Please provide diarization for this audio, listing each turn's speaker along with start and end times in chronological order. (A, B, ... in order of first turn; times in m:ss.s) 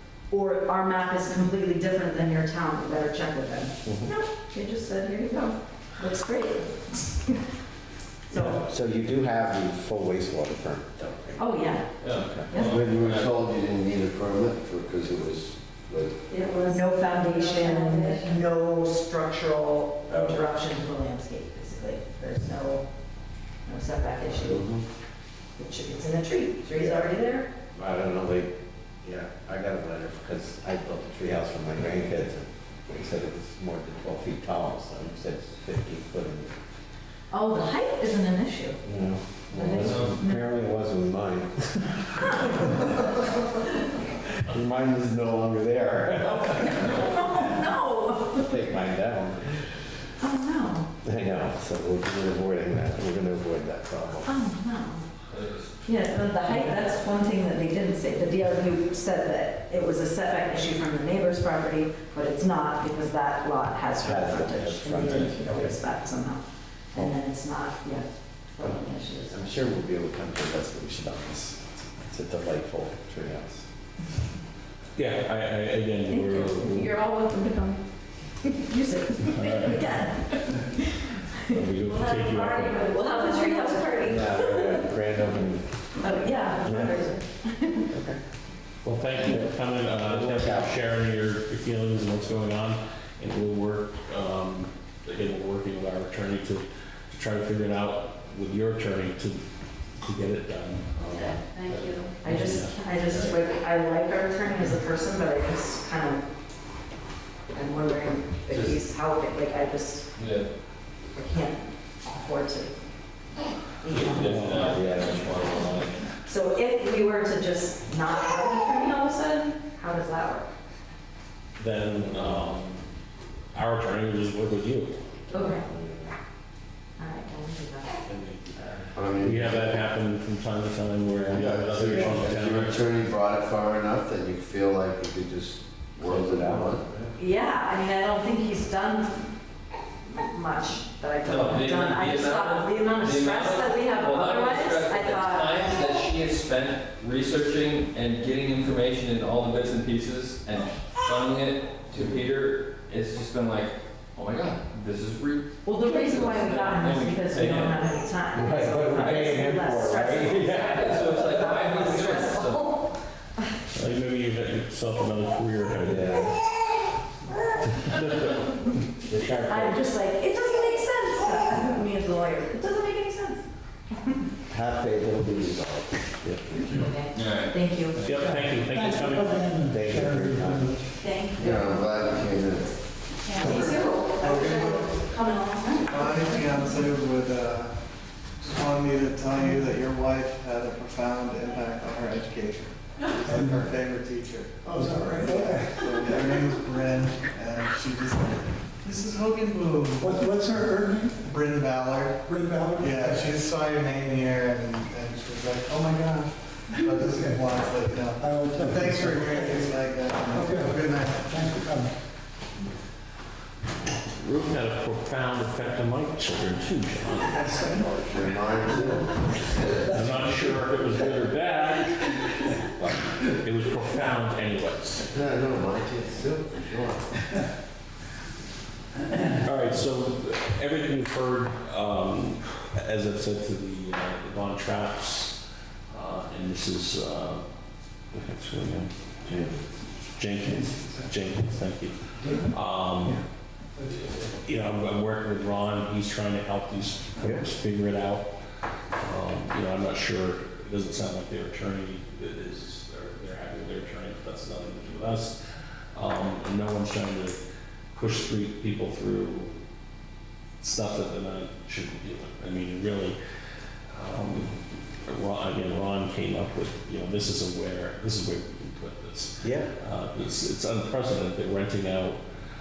0:00.3-0:07.4 A
0:03.8-0:04.1 B
0:08.3-0:08.6 A
0:08.6-0:12.5 B
0:11.4-0:12.0 A
0:12.0-0:13.4 C
0:12.5-0:12.8 A
0:12.6-0:16.2 D
0:16.3-0:18.3 E
0:16.7-0:22.9 A
0:20.1-0:20.4 B
0:23.7-0:24.7 A
0:25.6-0:27.5 A
0:26.8-0:27.1 B
0:27.7-0:36.5 B
0:37.3-0:38.8 A
0:38.8-0:42.9 B
0:39.5-0:40.5 A
0:39.7-0:40.2 C
0:42.2-0:43.3 A
0:44.4-0:47.4 B
0:46.2-0:48.6 A
0:48.4-0:49.4 B
0:50.2-0:50.9 A
0:51.0-0:54.3 B
0:54.3-0:55.1 A
0:55.3-0:55.8 C
0:55.8-1:09.4 A
1:04.0-1:05.7 B
1:09.3-1:13.7 B
1:15.0-1:16.9 F
1:16.1-1:17.8 A
1:18.4-1:21.7 A
1:19.3-1:19.8 F
1:21.5-1:22.9 F
1:21.9-1:24.2 E
1:22.7-1:24.9 A
1:24.0-1:25.6 B
1:26.0-1:27.9 A
1:26.6-1:27.1 B
1:27.9-1:28.2 B
1:28.8-1:39.4 F
1:29.3-1:30.8 B
1:40.0-1:42.8 F
1:41.2-1:42.9 E
1:42.2-1:46.2 A
1:47.5-1:50.1 A
1:48.5-1:48.8 C
1:50.2-1:50.5 C
1:51.2-1:52.7 A
1:53.8-2:00.5 A
1:53.8-1:56.1 C
1:54.2-1:55.4 B
2:01.6-2:02.8 F
2:03.5-2:05.0 F
2:05.3-2:05.6 A
2:05.3-2:06.1 B
2:07.0-2:08.0 A
2:08.0-2:12.8 F
2:09.0-2:09.8 D
2:11.1-2:12.1 B
2:11.3-2:16.8 D
2:16.0-2:17.0 B
2:17.2-2:19.3 A
2:20.1-2:25.7 A
2:21.2-2:38.0 C
2:35.6-2:42.8 A
2:38.3-2:41.2 B
2:40.5-2:42.9 C
2:43.7-2:46.2 F
2:45.7-2:46.4 B
2:47.3-2:48.0 A
2:47.9-2:48.5 F
2:49.1-2:49.8 B
2:49.5-2:53.4 A
2:54.5-2:56.2 B
2:56.7-2:58.0 A
2:56.7-2:57.5 C
2:58.0-2:59.5 F
2:58.0-3:00.8 G
2:59.6-3:00.8 B
3:01.0-3:02.6 A
3:01.4-3:02.7 D
3:03.3-3:06.2 A
3:03.4-3:03.7 E
3:04.1-3:05.0 H
3:05.8-3:07.7 H
3:08.4-3:14.6 H
3:14.6-3:16.3 G
3:15.1-3:20.3 H
3:20.0-3:21.2 G
3:21.2-3:31.6 H
3:22.3-3:23.2 G
3:28.2-3:29.6 G
3:30.3-3:31.9 G
3:34.2-3:37.5 F
3:37.6-3:39.3 D
3:39.8-3:42.2 F
3:42.8-3:45.1 F
3:45.1-3:47.1 D
3:49.4-3:55.4 F
3:55.9-3:57.4 F
3:58.1-3:59.4 F
3:59.3-3:59.6 B
4:00.2-4:03.2 F
4:03.9-4:08.3 F
4:07.2-4:07.5 B
4:09.0-4:15.4 F
4:16.0-4:17.4 F
4:17.9-4:19.5 F
4:20.6-4:23.2 F
4:23.9-4:32.2 F
4:29.4-4:29.7 B